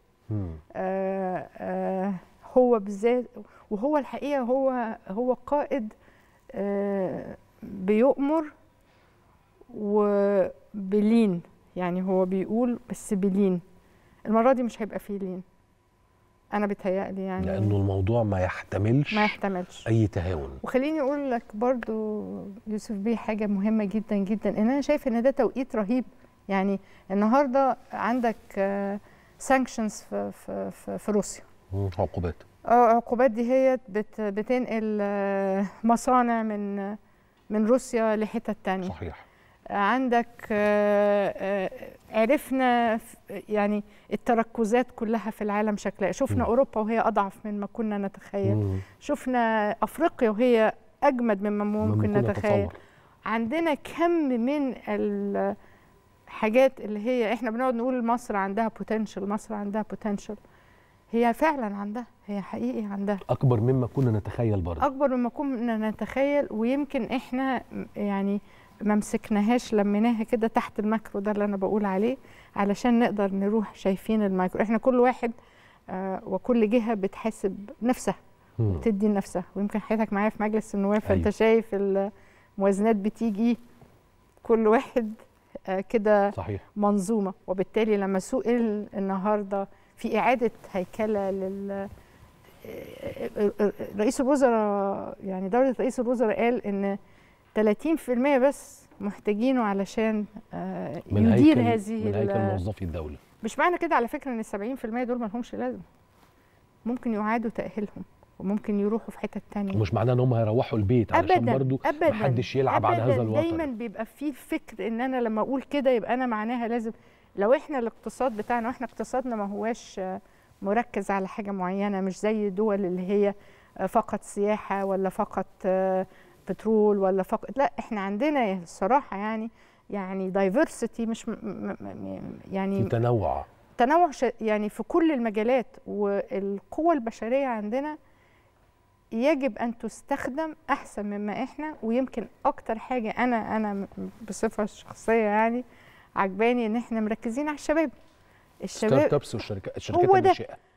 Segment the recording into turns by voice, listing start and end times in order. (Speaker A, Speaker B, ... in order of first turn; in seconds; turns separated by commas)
Speaker A: 0.3-0.6, Speaker B: 0.7-5.9, Speaker B: 6.5-8.5, Speaker B: 9.7-13.6, Speaker B: 14.3-15.4, Speaker B: 16.5-17.8, Speaker A: 17.4-19.4, Speaker B: 19.1-19.9, Speaker A: 19.9-20.6, Speaker B: 20.6-31.5, Speaker A: 31.7-32.4, Speaker B: 32.7-37.0, Speaker B: 37.5-39.0, Speaker A: 38.8-39.2, Speaker B: 39.7-52.7, Speaker A: 48.5-48.8, Speaker A: 51.8-52.8, Speaker B: 53.3-55.5, Speaker B: 56.3-60.4, Speaker B: 61.1-63.2, Speaker A: 63.3-64.9, Speaker B: 64.8-75.3, Speaker B: 75.9-83.6, Speaker A: 78.6-78.9, Speaker A: 81.0-81.3, Speaker B: 84.4-91.9, Speaker A: 86.3-86.6, Speaker B: 92.6-97.0, Speaker B: 97.5-102.6, Speaker A: 101.1-103.2, Speaker B: 103.4-105.8, Speaker B: 106.9-109.8, Speaker A: 109.7-113.7, Speaker B: 111.1-132.9, Speaker A: 132.8-133.5, Speaker B: 133.8-138.0, Speaker B: 139.2-145.6, Speaker B: 146.2-147.9, Speaker B: 148.6-149.2, Speaker A: 148.8-150.6, Speaker B: 149.9-150.4